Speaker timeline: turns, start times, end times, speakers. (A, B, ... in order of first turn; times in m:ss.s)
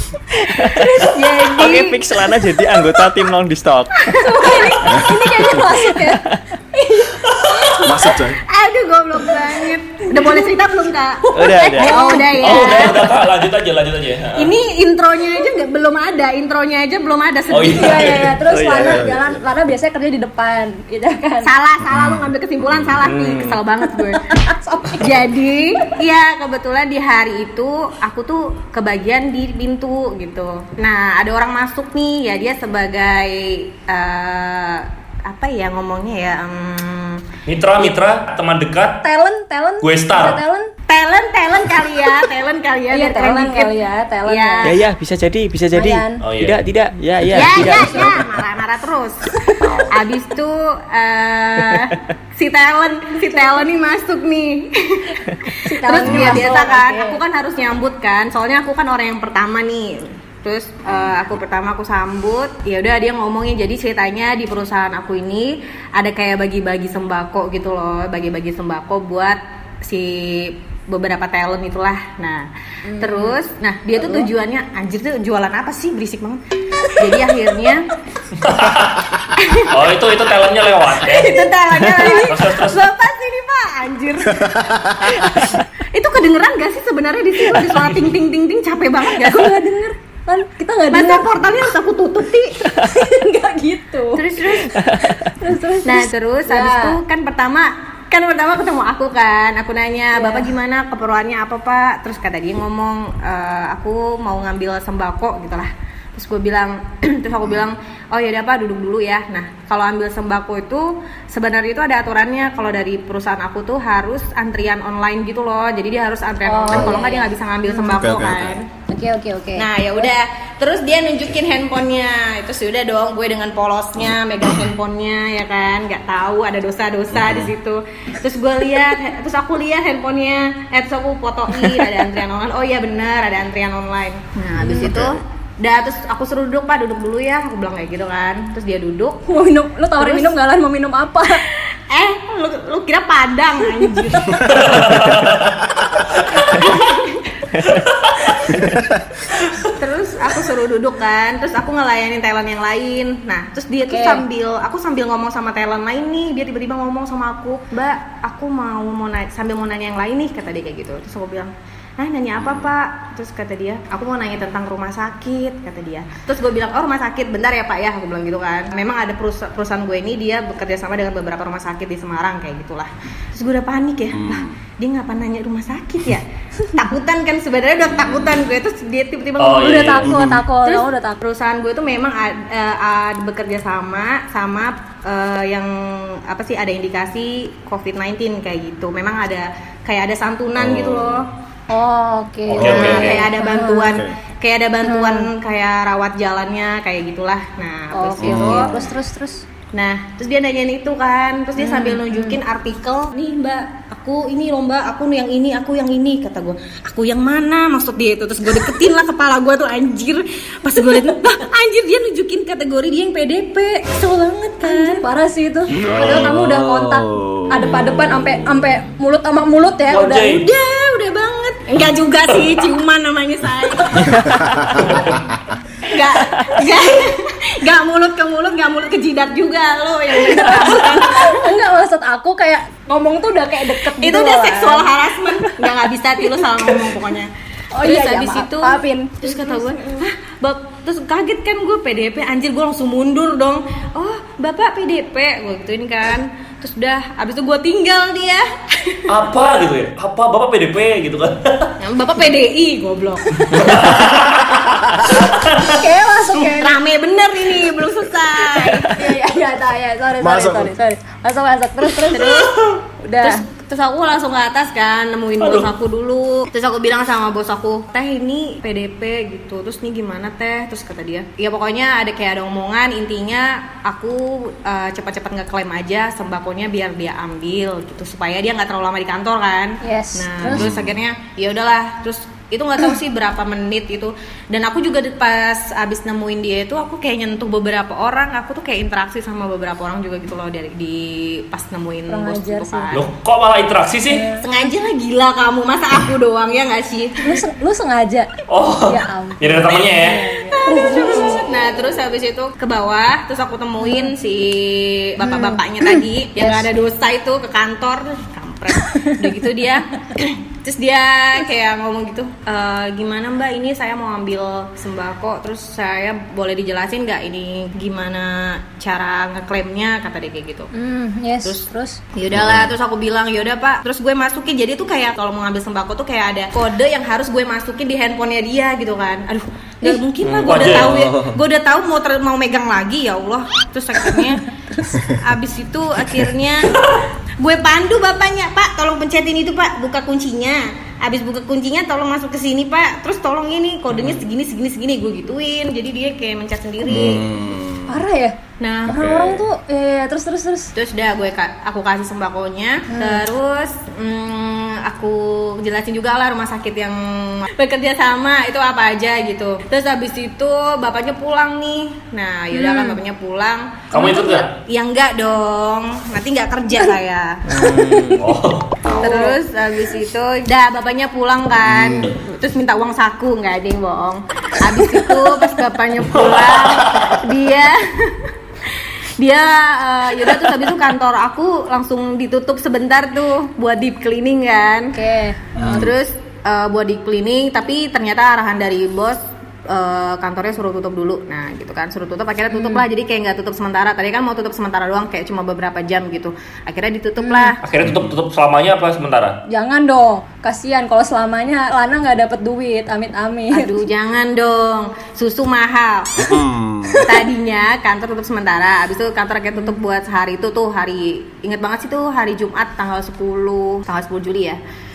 0:00.5-0:00.9 A
0:00.7-0:01.3 B
0:00.8-0:02.0 C
0:01.5-0:04.2 A
0:04.0-0:05.6 C
0:04.1-0:07.9 B
0:06.0-0:06.4 A
0:07.8-0:08.4 D
0:08.5-0:13.2 C
0:10.1-0:10.5 B
0:11.3-0:12.0 A
0:11.4-0:13.0 B
0:12.4-0:14.5 E
0:14.4-0:18.3 C
0:17.5-0:18.3 E
0:17.7-0:21.5 B
0:18.4-0:19.1 A
0:18.7-0:19.5 D
0:21.4-0:24.2 C
0:21.9-0:22.9 D
0:23.0-0:23.6 A
0:23.9-0:25.1 B
0:25.0-0:37.2 C
0:37.4-0:39.0 E
0:39.0-0:40.7 B
0:39.8-0:40.4 E
0:40.9-0:43.7 C
0:42.9-0:44.7 B
0:44.2-0:44.8 C
0:44.6-0:48.3 A
0:45.7-0:46.2 B
0:46.2-0:46.6 E
0:47.3-0:49.2 C
0:49.9-1:12.5 C
0:53.2-0:53.6 B
0:55.6-0:57.2 B
0:56.0-0:56.5 D
1:00.9-1:01.1 D
1:12.8-1:13.4 B
1:13.0-1:16.4 C
1:14.0-1:14.3 B
1:17.0-1:17.9 C
1:18.4-1:19.1 E
1:19.4-1:19.7 C
1:19.7-1:21.3 E
1:21.0-1:29.5 C
1:21.3-1:22.4 B
1:22.0-1:22.8 E
1:24.4-1:25.0 D
1:29.1-1:31.2 B
1:30.9-1:32.6 C
1:32.7-1:34.2 B
1:34.1-1:34.8 C
1:34.8-1:35.1 A
1:35.1-1:37.0 B
1:35.8-1:58.7 C
1:40.1-1:40.5 B
1:56.4-1:58.0 B
1:56.7-1:57.0 D
1:57.9-1:58.6 D
1:58.9-2:00.1 B
1:59.6-2:19.2 C
2:07.1-2:07.5 D
2:14.6-2:15.2 D
2:14.6-2:14.9 B
2:19.3-2:21.4 B
2:20.0-2:20.3 C
2:21.9-2:24.7 C
2:24.4-2:25.6 E
2:26.4-2:27.4 C
2:27.6-2:28.4 E
2:29.8-3:11.3 C
2:33.8-2:34.2 B
2:42.4-2:42.7 D
2:54.1-2:54.6 D
2:57.9-2:58.4 D
2:59.4-3:00.1 E
2:59.5-3:01.2 B
3:00.0-3:00.4 D
3:10.6-3:11.3 D
3:11.7-3:14.0 B
3:12.5-3:13.2 E
3:12.6-3:13.1 D
3:12.6-3:18.7 C
3:13.8-3:14.1 D
3:14.8-3:15.3 B
3:17.9-3:19.4 B
3:18.2-3:18.9 D
3:19.7-3:35.0 C
3:21.6-3:22.4 B
3:34.6-3:40.4 B
3:35.8-3:38.6 D
3:39.9-3:40.5 E
3:40.2-3:44.2 C
3:44.0-3:44.6 A
3:44.2-3:45.1 D
3:44.8-3:45.2 E
3:45.8-3:51.5 C
3:50.3-3:55.7 B
3:54.0-3:57.3 C
3:57.7-4:00.0 B
3:57.8-4:09.1 C
4:09.1-4:11.7 E
4:11.8-4:13.5 C
4:13.4-4:13.8 B
4:13.5-4:15.8 E
4:15.6-4:16.8 B
4:16.4-4:18.9 C
4:18.9-4:22.5 B
4:20.2-4:20.7 D
4:22.0-4:22.5 C
4:23.0-4:23.4 B
4:23.2-4:53.0 C
4:25.4-4:25.7 E
4:39.8-4:40.6 B
4:40.5-4:41.0 D
4:52.1-4:52.9 B
4:52.9-4:54.2 E
4:54.1-4:54.7 B
4:54.4-4:57.4 C
4:57.2-4:58.3 B
4:58.5-5:00.2 E
4:58.8-5:01.4 B
5:00.6-5:20.7 C
5:03.8-5:04.1 B
5:05.2-5:06.7 B
5:08.8-5:09.2 B
5:20.7-5:22.0 B
5:22.2-5:34.5 C
5:22.3-5:22.7 D
5:30.2-5:30.8 A
5:30.4-5:31.1 E
5:31.0-5:31.3 D
5:35.0-5:36.8 C
5:37.4-5:47.2 C
5:46.8-5:48.0 D
5:47.9-5:50.7 B
5:48.6-5:49.0 C
5:48.9-5:49.4 D
5:50.7-6:07.7 C
5:52.9-5:53.2 B
6:02.5-6:03.0 B
6:03.9-6:04.5 E
6:07.5-6:08.2 A
6:08.2-6:08.8 E
6:08.9-6:09.4 B
6:09.0-6:24.9 C
6:11.6-6:12.1 D
6:14.9-6:15.2 B
6:16.1-6:17.1 E
6:24.9-6:25.4 B
6:25.5-6:25.9 D
6:25.6-6:37.6 C
6:32.5-6:32.8 B
6:37.2-6:37.5 B
6:37.6-6:39.4 E
6:37.8-6:38.1 D
6:39.5-6:43.7 B
6:43.5-6:46.3 C
6:46.2-6:47.0 D
6:47.0-6:54.6 C